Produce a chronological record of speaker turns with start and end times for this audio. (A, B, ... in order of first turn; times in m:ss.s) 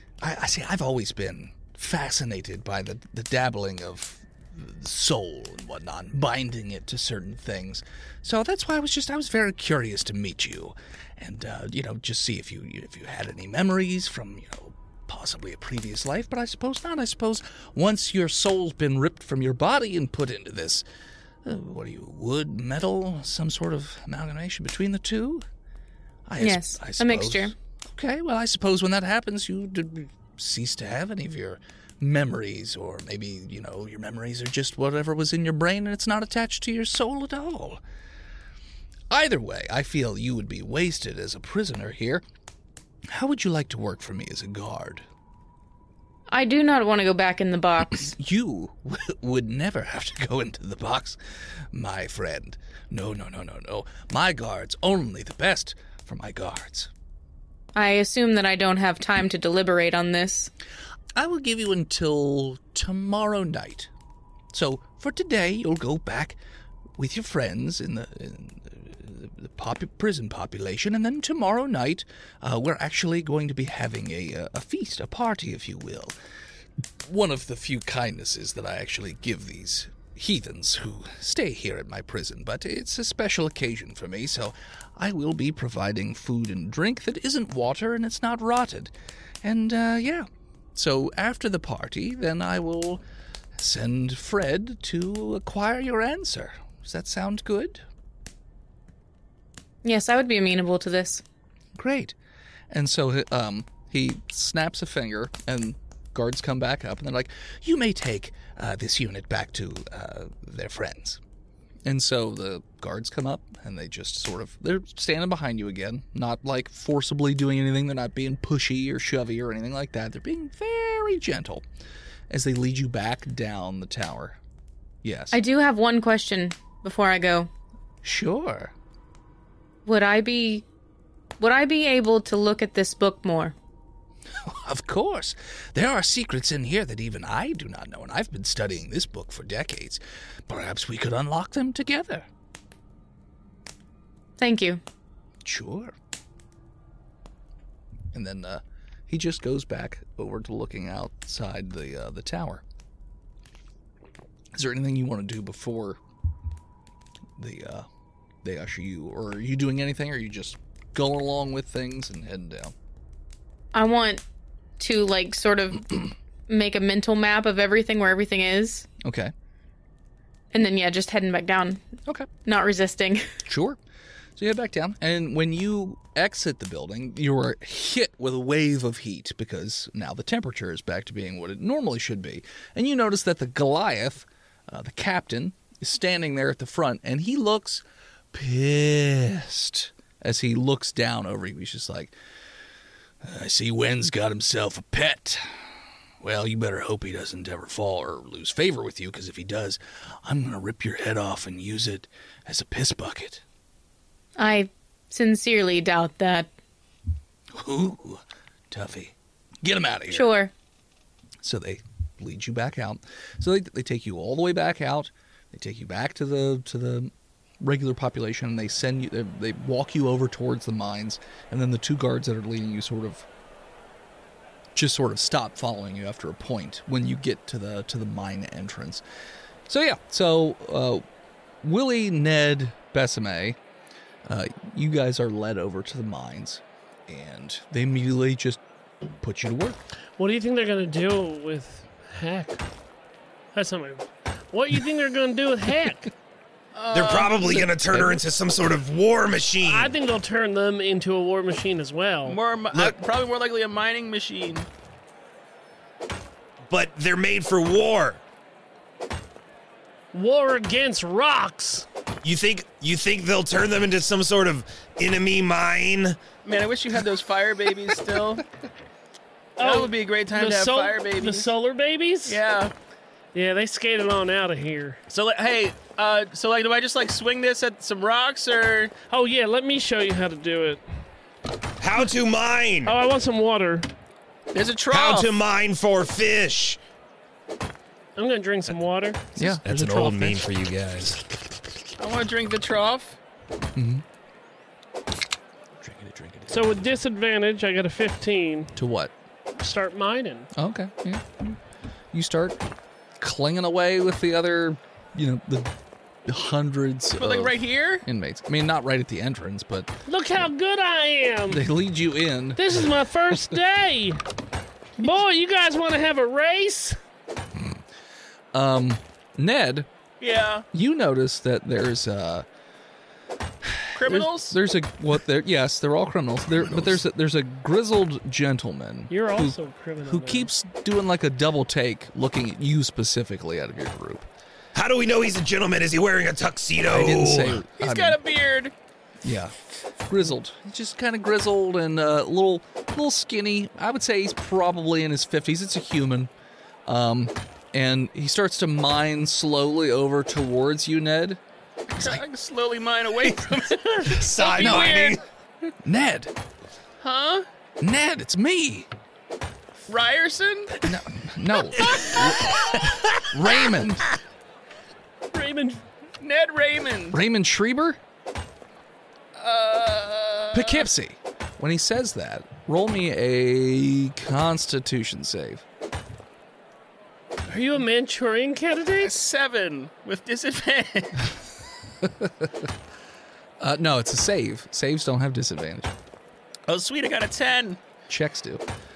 0:00.2-0:20.8 A
0:21.4-0:25.4 A
0:26.3-0:37.8 A
0:26.4-0:27.5 B
0:39.1-0:42.2 A
0:43.1-0:45.1 A
0:46.3-0:48.1 B
0:47.9-0:51.2 A
0:51.7-0:56.9 A
0:57.8-1:00.5 B
1:01.2-1:03.9 A
1:04.5-1:06.4 A
1:07.0-1:16.2 A
1:17.0-1:33.0 A
1:33.6-1:37.8 A
1:39.8-1:41.2 B
1:41.8-1:42.2 A
1:42.7-1:51.2 A
1:51.8-2:01.6 A
2:02.3-2:04.4 A
2:05.0-2:05.4 A
2:05.3-2:07.5 B
2:08.0-2:08.7 A
2:09.9-2:10.6 B
2:11.4-2:13.6 B
2:14.4-2:22.3 A
2:24.4-2:24.8 B
2:25.4-2:25.9 A
2:28.1-2:32.6 A
2:34.5-2:36.0 A
2:37.4-2:37.9 A
2:38.4-2:42.7 A
2:43.7-2:44.2 B
2:44.8-2:48.9 B
2:49.0-2:49.3 A
2:50.5-2:51.8 B
2:52.4-2:53.3 B
2:53.5-2:53.8 A
2:54.4-3:12.1 A
3:13.2-3:15.5 A
3:16.2-3:23.4 A
3:24.4-3:26.5 B
3:27.5-3:30.3 A
3:30.1-3:30.5 B
3:31.4-3:43.3 A
3:44.8-3:49.0 A
3:49.7-3:51.0 A
3:51.6-3:53.6 A
3:54.3-3:58.6 A
3:59.2-3:59.8 A
4:00.2-4:02.6 C
4:03.5-4:06.1 C
4:06.7-4:07.6 D
4:06.9-4:09.9 E
4:07.6-4:08.2 A
4:09.6-4:12.4 C
4:12.2-4:14.7 D
4:12.7-4:13.0 E
4:16.7-4:18.2 E
4:20.1-4:21.9 C
4:22.2-4:26.3 E
4:26.4-4:28.4 D
4:29.6-4:31.5 D
4:29.6-4:32.4 C
4:32.3-4:32.7 D
4:33.3-4:35.0 C
4:35.1-4:38.9 D
4:39.1-4:40.8 C
4:41.8-4:43.0 E
4:42.9-4:43.9 C
4:44.5-4:45.3 D
4:44.9-4:46.8 E
4:48.2-4:49.4 C
4:49.4-4:50.4 A
4:49.6-4:51.2 E
4:52.0-4:53.2 D
4:53.8-4:54.0 A
4:55.8-4:56.9 A
4:56.5-4:58.7 C
4:58.8-4:59.1 A
4:59.6-5:00.5 C
5:00.6-5:01.6 A
5:02.1-5:02.6 A
5:03.2-5:05.7 A
5:06.3-5:09.9 A
5:07.2-5:08.1 D
5:10.1-5:11.7 C
5:11.5-5:12.7 A
5:12.6-5:14.2 C
5:15.0-5:17.0 C
5:18.5-5:19.9 A
5:20.2-5:20.7 D
5:20.7-5:22.5 A
5:23.6-5:34.3 A
5:24.0-5:24.6 D
5:29.1-5:30.5 C
5:34.7-5:37.6 E
5:36.9-5:38.2 A
5:37.8-5:38.7 D
5:39.2-5:46.3 A
5:46.9-5:51.4 A
5:52.0-5:55.2 D
5:54.2-5:55.2 E
5:54.6-5:55.1 A
5:55.8-5:56.3 A
5:57.0-5:57.5 D
5:57.8-5:58.9 A
5:59.9-6:00.9 D
6:00.8-6:02.6 A
6:01.8-6:03.0 D
6:03.2-6:04.1 A
6:05.3-6:05.8 C
6:06.2-6:07.2 D
6:07.1-6:08.0 A
6:09.4-6:10.9 D
6:10.5-6:15.6 A
6:17.5-6:19.2 C
6:19.0-6:21.3 D
6:22.0-6:22.5 A
6:23.6-6:25.9 A
6:26.7-6:27.8 D
6:28.1-6:28.6 A